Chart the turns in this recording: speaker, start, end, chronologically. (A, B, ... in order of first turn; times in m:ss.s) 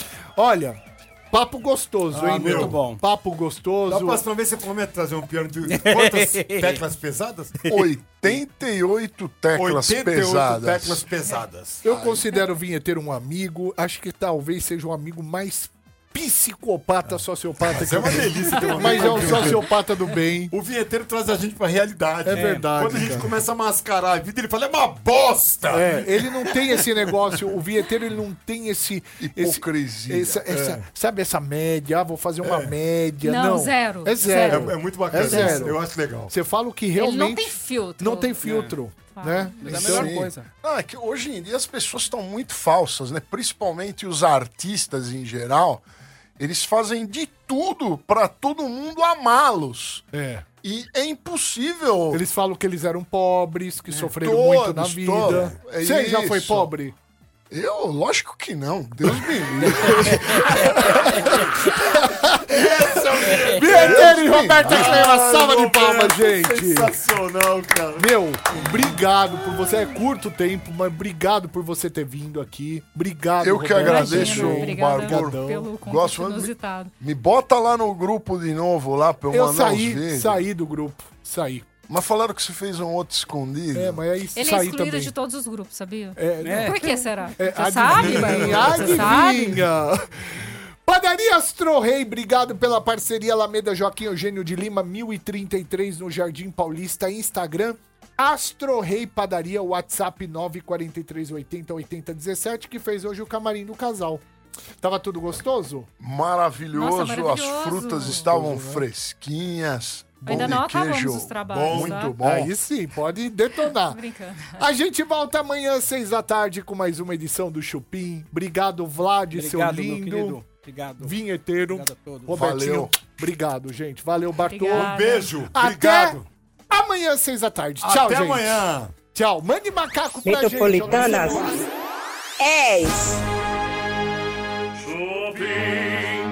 0:00.4-0:04.2 A
0:02.1-0:02.8 B
0:02.2-0:03.0 C
0:03.9-0:07.7 B
0:05.7-0:06.8 C
0:07.6-0:11.0 D
0:09.6-0:11.8 B
0:11.8-0:20.5 A
0:11.8-0:12.2 D
0:17.6-0:19.7 B
0:20.5-0:26.6 B
0:22.2-0:23.4 A
0:22.3-0:22.7 C
0:25.7-0:40.2 A
0:29.2-0:30.4 D
0:30.5-0:30.8 B
0:32.4-0:32.7 B
0:33.2-0:35.7 E
0:34.4-0:36.3 B
0:37.0-0:38.5 E
0:38.4-0:38.8 C
0:39.1-0:39.8 E
0:39.6-0:40.5 C
0:39.7-0:45.8 D
0:46.4-0:50.0 D
0:50.1-0:50.4 A
0:50.6-0:52.2 D
0:52.1-0:57.0 A
0:54.2-0:56.7 D
0:55.2-0:55.5 B
0:57.5-1:00.7 D
0:59.9-1:02.7 A
1:02.4-1:08.1 B
1:03.3-1:07.0 A
1:03.7-1:05.0 D
1:07.9-1:15.7 A
1:13.4-1:20.4 D
1:13.7-1:16.9 E
1:19.3-1:21.7 A
1:21.9-1:24.0 D
1:23.7-1:25.1 A
1:24.3-1:29.6 E
1:26.2-1:44.2 A
1:26.4-1:26.8 C
1:28.0-1:28.7 C
1:44.8-1:45.9 A
1:46.0-1:52.5 D
1:46.7-1:48.2 E
1:48.0-1:48.8 A
1:50.2-1:52.2 E
1:51.4-1:52.0 B
1:52.2-2:00.4 A
1:53.6-1:54.6 E
1:59.3-2:02.4 C
2:01.0-2:11.6 A
2:02.3-2:03.0 D
2:04.5-2:05.3 E
2:04.7-2:06.2 B
2:07.8-2:08.9 B
2:10.2-2:11.6 F
2:12.4-2:13.2 F
2:15.1-2:15.9 B